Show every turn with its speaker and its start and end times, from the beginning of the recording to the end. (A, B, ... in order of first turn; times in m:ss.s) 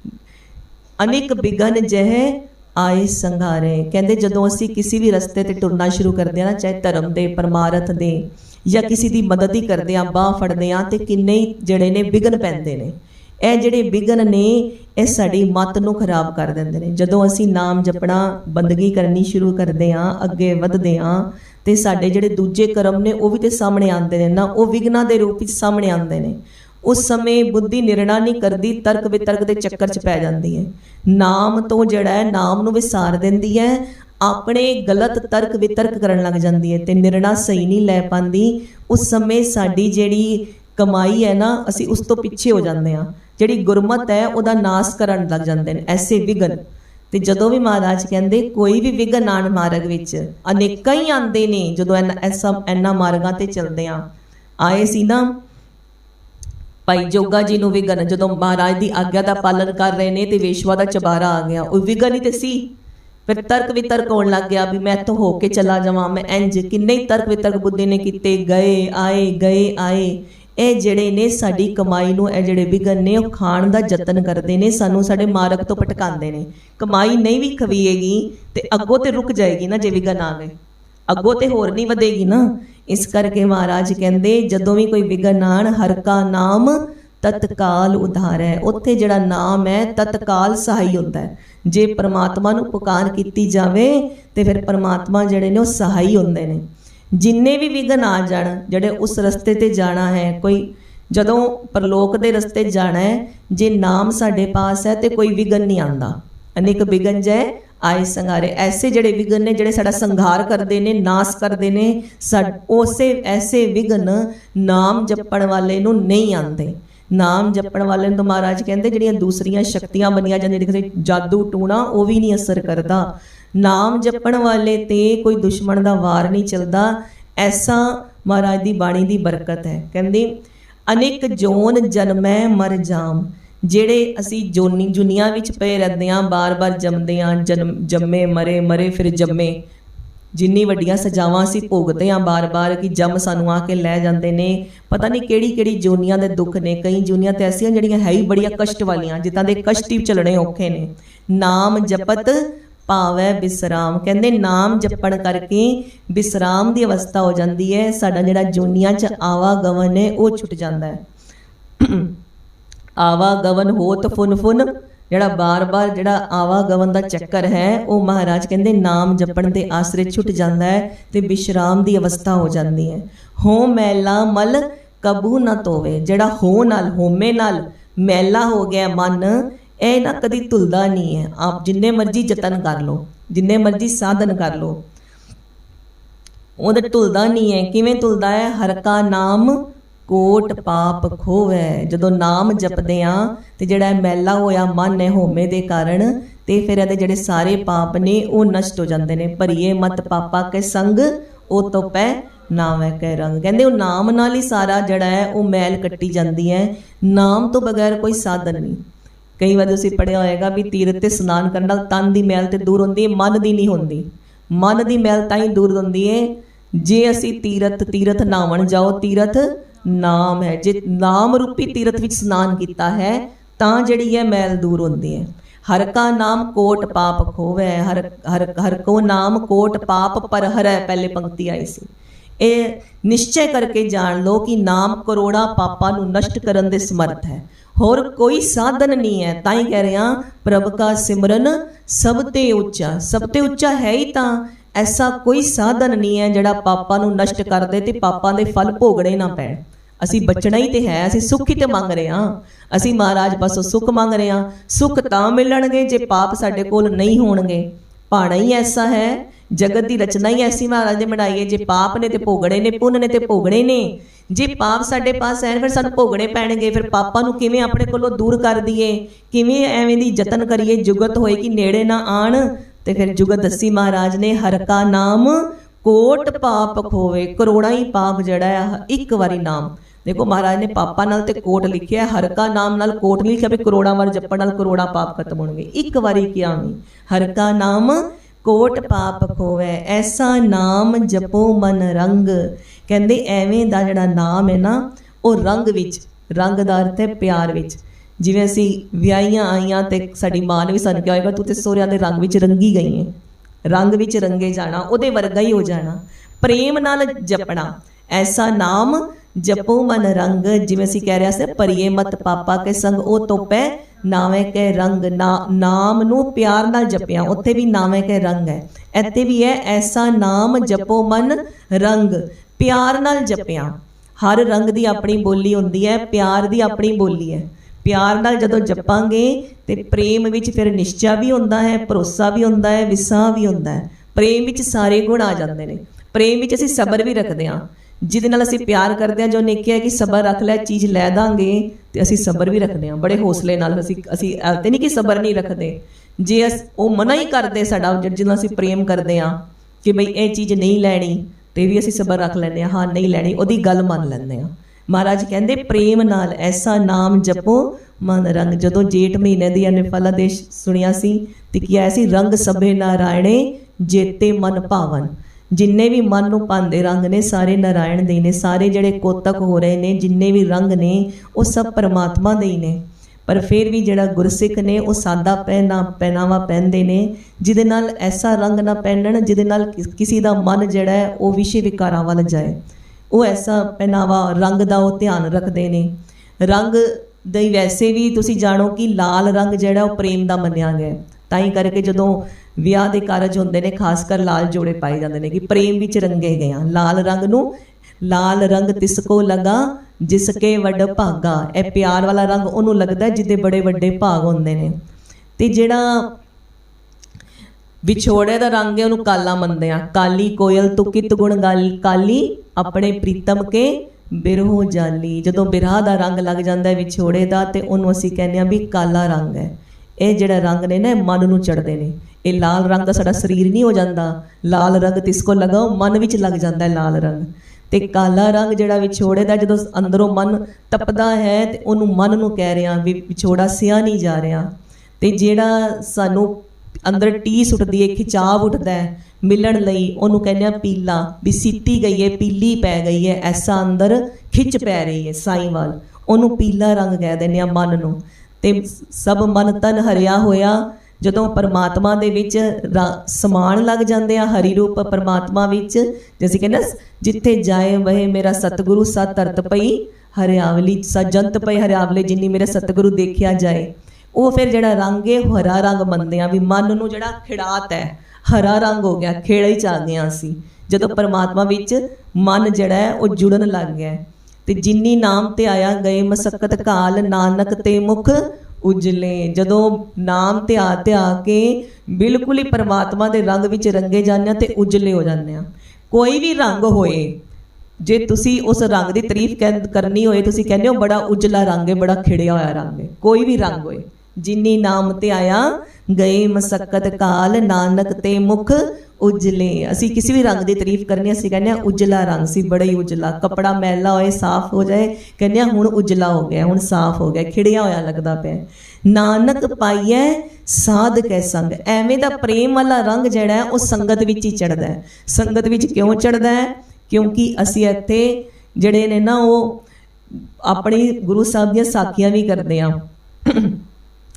0:01.0-0:54.1 A
0:54.6-0:55.3 A
0:56.9-1:02.7 A
1:03.3-1:20.6 A
1:21.1-1:36.6 A
1:37.2-2:10.3 A
2:10.9-2:19.6 A
2:20.3-2:41.0 A
2:41.8-2:42.1 A
2:43.0-3:04.8 A
3:06.6-3:28.8 A
3:29.4-3:51.9 A
3:52.4-5:03.1 A
5:03.7-6:22.6 A
6:23.1-6:25.9 A
6:26.4-6:37.5 A
6:38.0-6:44.8 A
6:45.4-6:46.1 A
6:47.8-7:14.5 A
7:15.0-8:07.2 A
8:07.8-8:39.6 A
8:40.1-8:43.6 A